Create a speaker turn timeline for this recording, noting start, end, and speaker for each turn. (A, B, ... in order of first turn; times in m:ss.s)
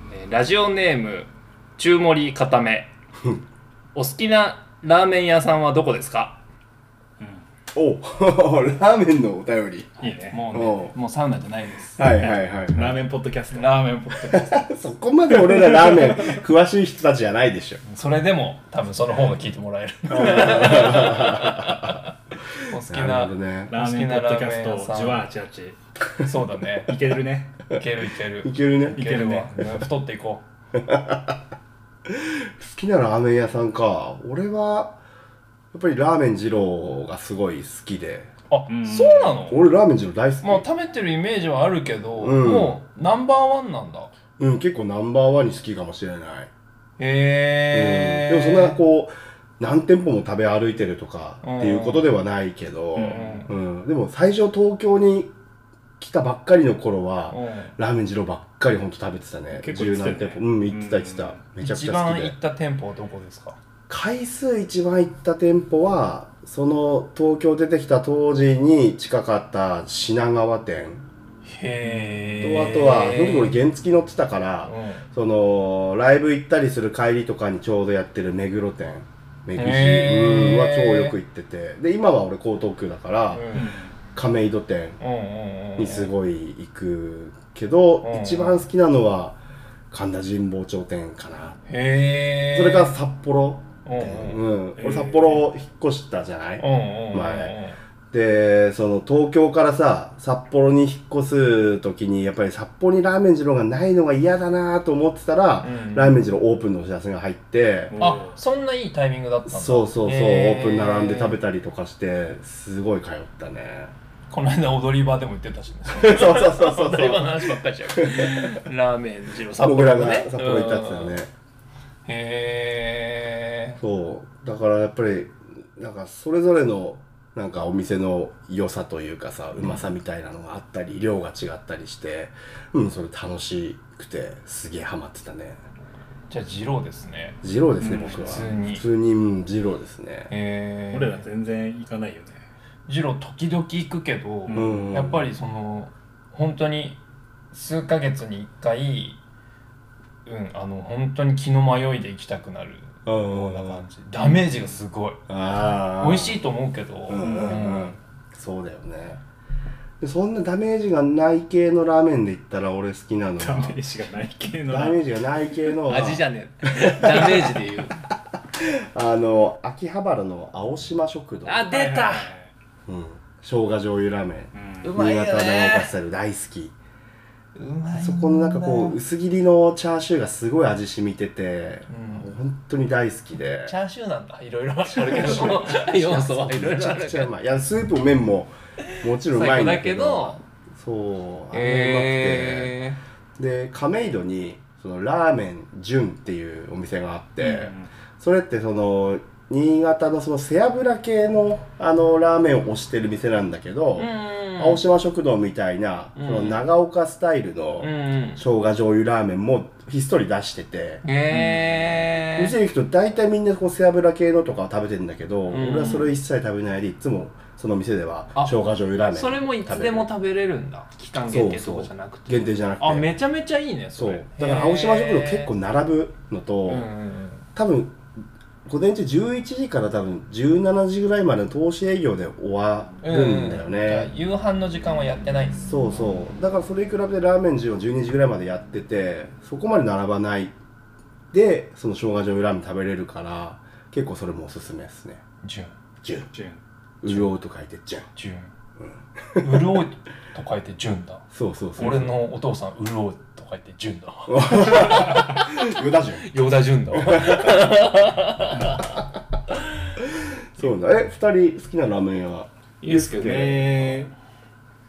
0:00.1-0:02.9 A
0:04.0-0:06.4 A
0:07.2-0:07.4 B
0:07.8-0:09.9 C
0:10.0-0:10.4 B
0:10.0-0:12.3 A
0:10.5-0:10.9 C
0:12.0-0:12.9 C
0:12.2-0:14.2 B
0:13.5-0:14.5 A
0:14.2-0:17.8 C
0:15.8-0:16.3 B
0:17.9-0:22.1 A
0:20.1-0:22.0 C
0:22.6-0:25.2 A
0:22.9-0:23.7 C
0:23.7-0:25.8 B
0:26.2-0:26.9 A
0:26.8-0:27.6 B
0:27.7-0:30.5 A
0:28.4-0:29.1 C
0:29.0-0:29.5 B
0:30.8-0:31.4 C
0:32.1-0:35.0 C
0:35.7-0:38.3 C
0:38.5-0:39.6 A
0:38.7-0:39.6 B
0:39.5-0:40.6 C
0:40.4-0:44.1 A
0:42.2-0:42.8 C
0:44.4-0:46.5 C
0:47.0-0:48.8 A
0:47.7-0:55.3 C
0:51.4-0:52.1 A
0:53.0-0:53.4 B
0:53.0-0:53.5 A
0:56.0-1:02.4 C
0:57.3-0:57.8 A
0:59.6-1:01.4 B
1:01.6-1:03.6 A
1:03.9-1:11.0 C
1:11.5-1:13.6 A
1:12.4-1:23.5 C
1:14.6-1:15.0 A
1:19.6-1:21.2 A
1:23.3-1:23.7 A
1:23.5-1:24.0 B
1:24.2-1:25.0 C
1:25.0-1:26.1 A
1:25.8-1:29.4 C
1:28.0-1:28.6 A
1:29.9-1:31.6 C
1:31.7-1:33.0 A
1:32.5-1:37.5 C
1:33.8-1:34.4 A
1:34.8-1:35.5 B
1:36.6-1:37.8 A
1:38.1-1:47.9 C
1:45.6-1:46.2 A
1:47.9-1:48.4 B
1:48.0-1:51.4 A
1:49.5-1:53.9 C
1:54.3-2:01.2 A
1:55.9-1:58.6 C
1:59.6-2:01.3 C
2:02.0-2:03.8 A
2:03.8-2:15.6 C
2:16.3-2:17.4 A
2:17.4-2:20.3 C
2:17.8-2:18.5 B
2:18.0-2:18.8 A
2:20.3-2:21.3 A
2:20.9-2:22.5 B
2:22.9-2:27.0 A
2:24.5-2:25.0 B
2:24.5-2:25.3 C
2:27.5-2:29.2 A
2:30.3-2:35.2 A
2:33.0-2:33.8 C
2:34.3-2:34.8 B
2:35.3-2:36.4 C
2:35.8-2:38.0 A
2:37.1-2:39.2 C
2:37.2-2:37.7 B
2:40.0-2:43.8 C
2:43.4-2:45.0 B
2:44.7-2:47.7 C
2:45.9-2:48.0 A
2:48.6-2:51.7 C
2:51.4-2:52.3 A
2:51.7-2:52.5 B
2:52.9-2:56.8 C
2:54.5-2:54.9 B
2:54.8-2:55.9 A
2:57.6-2:59.0 A
2:57.9-3:03.8 C
3:01.9-3:02.3 A
3:03.7-3:07.3 A
3:04.9-3:12.8 C
3:09.2-3:10.4 A
3:11.5-3:13.0 A
3:13.4-3:31.6 C
3:17.4-3:17.9 B
3:24.0-3:24.8 A
3:26.2-3:26.6 A
3:27.8-3:28.4 A
3:31.0-3:32.5 A
3:32.4-3:40.1 C
3:35.5-3:36.1 A
3:39.1-3:45.5 A
3:41.2-3:43.1 C
3:44.0-3:46.9 C
3:46.7-3:47.5 A
3:47.6-3:48.0 C
3:48.7-3:54.1 C
3:53.0-3:55.7 A
3:55.7-4:00.5 C
4:01.3-4:05.2 C
4:05.4-4:05.7 A
4:06.0-4:06.3 C
4:06.3-4:06.6 B
4:07.0-4:08.1 C
4:08.2-4:08.5 A
4:08.8-4:09.8 C
4:09.4-4:11.3 A
4:11.3-4:12.2 C
4:11.8-4:15.5 A
4:14.3-4:16.3 C
4:16.2-4:19.0 A
4:16.9-4:17.6 C
4:18.5-4:18.8 B
4:20.1-4:24.0 C
4:22.8-4:23.6 A
4:23.1-4:24.1 B